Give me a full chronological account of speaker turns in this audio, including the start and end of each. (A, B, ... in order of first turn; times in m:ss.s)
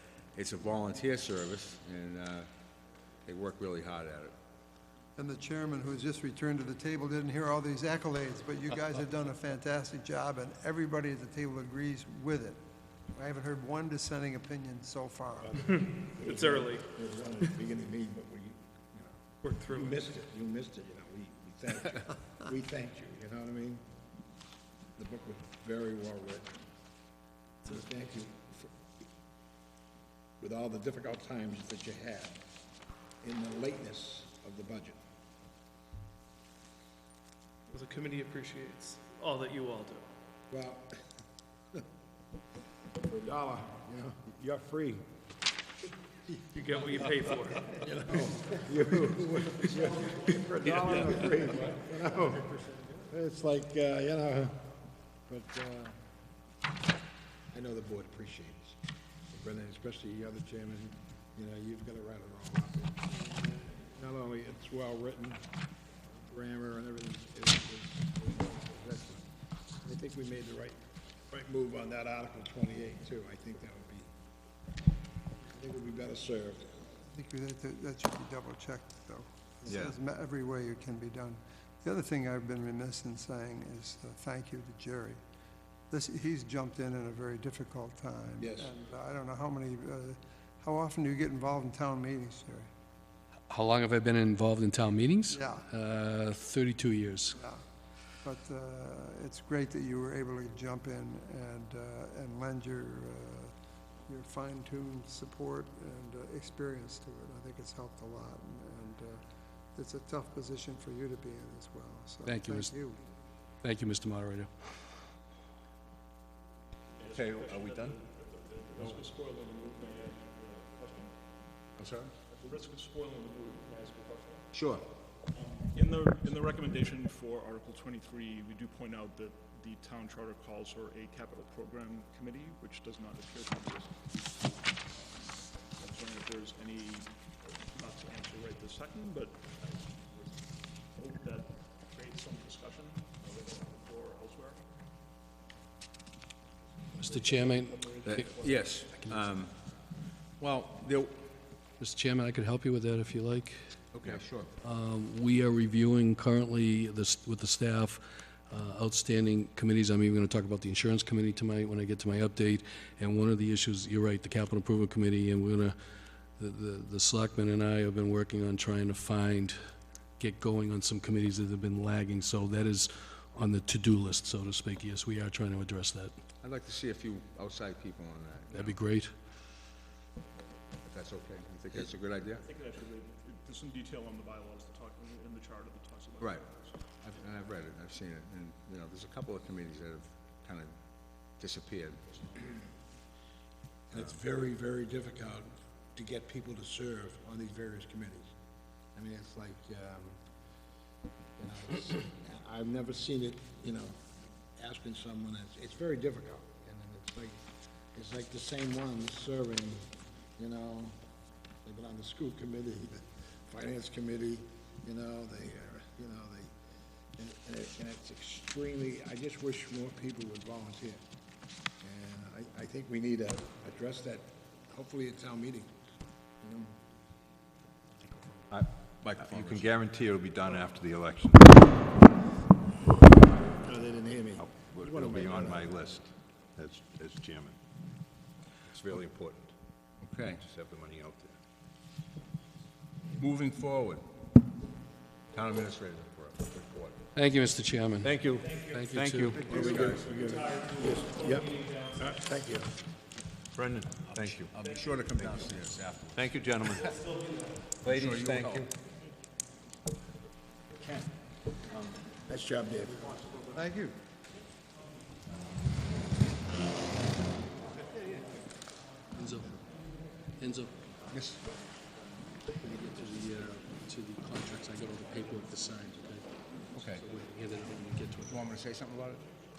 0:00.3-0:02.5 A
0:03.2-0:04.3 A
0:05.2-0:12.6 B
0:13.1-0:16.3 B
0:15.5-0:23.8 C
0:15.7-0:16.9 D
0:19.4-0:20.0 D
0:25.0-0:26.5 C
0:27.6-0:28.7 C
0:30.4-0:32.4 C
0:33.2-0:35.0 C
0:37.7-0:40.0 D
0:40.5-0:41.0 C
0:43.0-0:45.0 C
0:46.5-0:47.8 D
0:46.8-0:54.7 C
0:55.3-0:56.0 C
0:57.5-0:58.8 C
0:59.3-1:05.5 C
1:06.0-1:09.3 C
1:09.8-1:10.8 C
1:11.3-1:14.1 C
1:15.4-1:16.8 C
1:17.1-1:25.2 B
1:25.9-1:32.7 B
1:28.4-1:28.7 C
1:33.5-1:37.4 E
1:35.3-1:35.6 B
1:37.3-1:37.6 B
1:38.2-1:43.5 B
1:44.1-1:49.2 B
1:49.7-1:53.0 B
1:52.2-1:52.7 E
1:53.6-1:54.5 E
1:57.0-2:01.1 F
1:57.1-1:58.0 A
2:01.8-2:02.1 A
2:02.3-2:04.5 F
2:04.5-2:04.8 A
2:05.3-2:13.9 F
2:15.8-2:24.6 F
2:27.0-2:29.3 E
2:27.0-2:28.6 F
2:28.0-2:29.5 A
2:30.4-2:31.1 A
2:31.8-2:33.8 E
2:33.9-2:34.5 A
2:34.6-2:45.8 E
2:46.4-2:49.6 E
2:50.2-2:56.1 E
2:56.4-2:58.8 A
2:58.5-2:59.1 E
3:00.8-3:02.4 A
3:02.3-3:06.8 F
3:06.2-3:06.4 A
3:07.0-3:10.7 A
3:11.3-3:12.3 A
3:13.9-3:18.3 C
3:18.9-3:20.2 C
3:21.4-3:24.0 C
3:24.6-3:27.4 C
3:27.9-3:29.8 C
3:30.4-3:31.0 C
3:31.6-3:36.5 C
3:37.2-3:41.0 C
3:41.8-3:45.8 C
3:46.4-3:46.7 C
3:48.5-3:51.8 G
3:49.0-3:49.7 A
3:53.5-3:55.8 C
3:54.4-3:57.6 G
3:58.7-3:59.5 G
4:00.0-4:00.4 A
4:00.4-4:01.3 G
4:03.2-4:04.0 A
4:05.3-4:07.0 A
4:07.1-4:09.4 E
4:08.0-4:10.1 G
4:08.4-4:08.7 D
4:09.4-4:12.7 C
4:09.4-4:10.1 A
4:09.8-4:12.0 D
4:13.6-4:14.5 G
4:14.1-4:16.4 A
4:15.2-4:15.5 G
4:16.1-4:17.1 G
4:17.8-4:18.7 G
4:17.8-4:18.6 A
4:22.2-4:23.1 C
4:23.5-4:23.8 A
4:29.1-4:29.6 E
4:30.4-4:30.8 E
4:31.1-4:31.4 A
4:32.6-4:38.4 E
4:36.7-4:37.0 A
4:38.3-4:39.2 A